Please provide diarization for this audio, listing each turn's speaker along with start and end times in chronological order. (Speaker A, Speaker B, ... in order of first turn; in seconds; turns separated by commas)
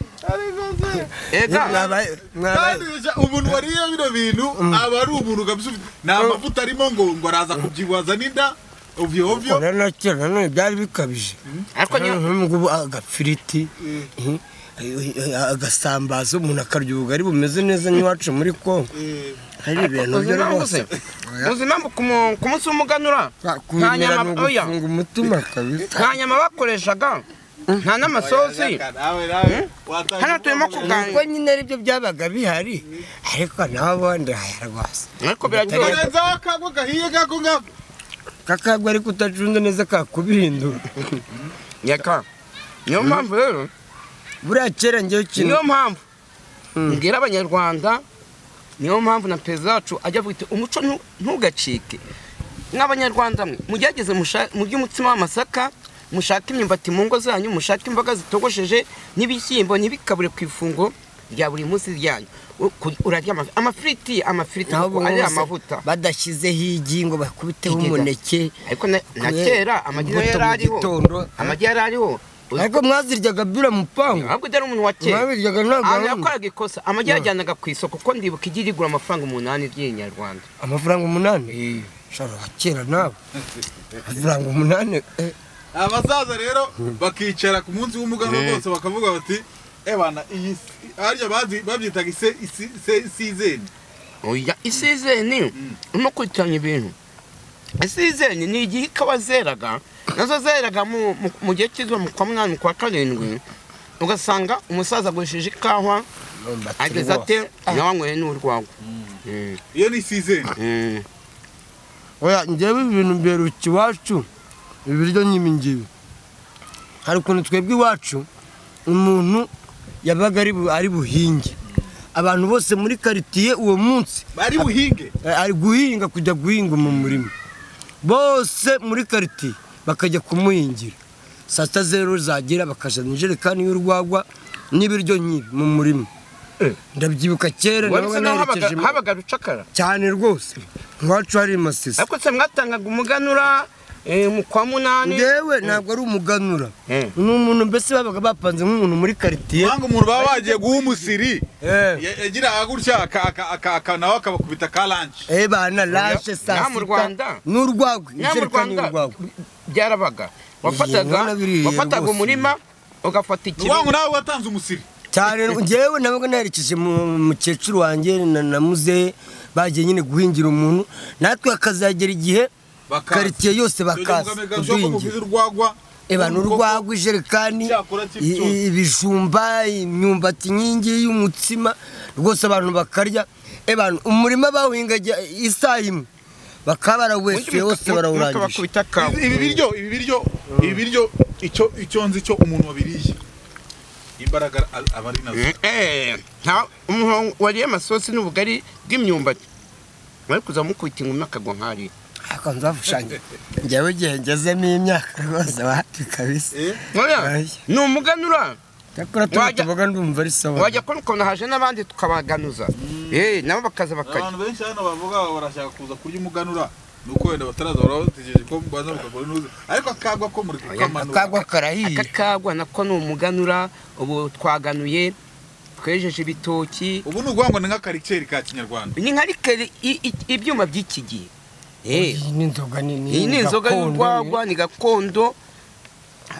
Speaker A: 0.2-2.0, Speaker B: 1.3-1.8, Speaker C: 1.5-2.9, Speaker A: 2.5-9.6, Speaker C: 4.6-4.8, Speaker C: 6.1-6.4, Speaker C: 9.3-11.4, Speaker B: 11.7-12.2, Speaker C: 11.9-18.9, Speaker A: 13.8-14.1, Speaker A: 18.9-19.4, Speaker C: 19.6-21.5, Speaker B: 19.8-20.9, Speaker B: 21.4-24.7, Speaker C: 23.4-26.1, Speaker B: 25.9-28.8, Speaker A: 28.1-31.2, Speaker B: 29.4-31.2, Speaker C: 30.8-35.1, Speaker B: 35.2-36.1, Speaker A: 35.6-37.7, Speaker C: 35.7-36.0, Speaker C: 38.5-41.2, Speaker B: 41.8-42.2, Speaker B: 42.9-43.7, Speaker C: 44.4-45.6, Speaker B: 45.4-46.0, Speaker B: 46.9-48.0, Speaker B: 48.8-52.0, Speaker B: 52.7-65.8, Speaker C: 64.7-68.5, Speaker B: 67.7-68.1, Speaker B: 68.7-72.8, Speaker C: 69.2-71.5, Speaker C: 72.6-74.3, Speaker B: 74.1-75.3, Speaker C: 75.0-76.3, Speaker B: 75.8-80.5, Speaker C: 80.6-81.5, Speaker B: 81.5-81.9, Speaker C: 82.1-83.2, Speaker C: 84.0-85.3, Speaker A: 85.7-93.7, Speaker B: 88.2-88.6, Speaker B: 94.2-96.9, Speaker B: 97.8-103.4, Speaker B: 104.0-106.0, Speaker C: 106.4-107.8, Speaker B: 106.8-108.7, Speaker B: 109.2-109.6, Speaker A: 109.7-110.5, Speaker B: 110.5-111.0, Speaker C: 112.2-114.3, Speaker C: 114.8-115.9, Speaker C: 117.0-118.3, Speaker C: 118.8-119.5, Speaker C: 120.0-121.5, Speaker C: 122.1-124.7, Speaker A: 124.3-125.1, Speaker C: 125.2-127.3, Speaker A: 126.9-127.2, Speaker C: 128.0-130.9, Speaker C: 131.5-136.1, Speaker C: 136.9-138.9, Speaker B: 137.8-139.7, Speaker C: 139.7-142.0, Speaker B: 142.0-145.8, Speaker C: 145.0-149.8, Speaker B: 146.9-147.1, Speaker A: 149.5-151.4, Speaker C: 151.6-152.0, Speaker A: 152.0-155.2, Speaker C: 155.3-159.2, Speaker A: 155.9-156.2, Speaker B: 156.5-157.4, Speaker B: 158.2-163.9, Speaker C: 160.6-162.5, Speaker A: 163.6-164.8, Speaker C: 165.1-172.5, Speaker A: 172.9-176.8, Speaker C: 173.1-175.2, Speaker C: 176.1-186.1, Speaker A: 177.6-178.6, Speaker C: 186.7-188.6, Speaker B: 187.3-189.6, Speaker A: 188.9-193.2, Speaker C: 190.6-190.8, Speaker A: 194.2-195.5, Speaker B: 195.3-199.4, Speaker B: 200.3-201.9, Speaker C: 202.3-206.5, Speaker A: 206.5-206.8, Speaker B: 206.9-208.6, Speaker C: 207.2-207.6, Speaker C: 208.9-210.8, Speaker B: 209.3-209.7, Speaker B: 210.6-214.3, Speaker A: 212.8-213.3, Speaker A: 214.0-221.4, Speaker B: 220.7-221.0, Speaker C: 220.9-222.1, Speaker B: 221.8-225.2, Speaker B: 225.8-227.1, Speaker A: 227.0-228.9, Speaker B: 228.9-231.3, Speaker B: 231.8-232.2, Speaker C: 231.9-234.4, Speaker B: 233.1-235.4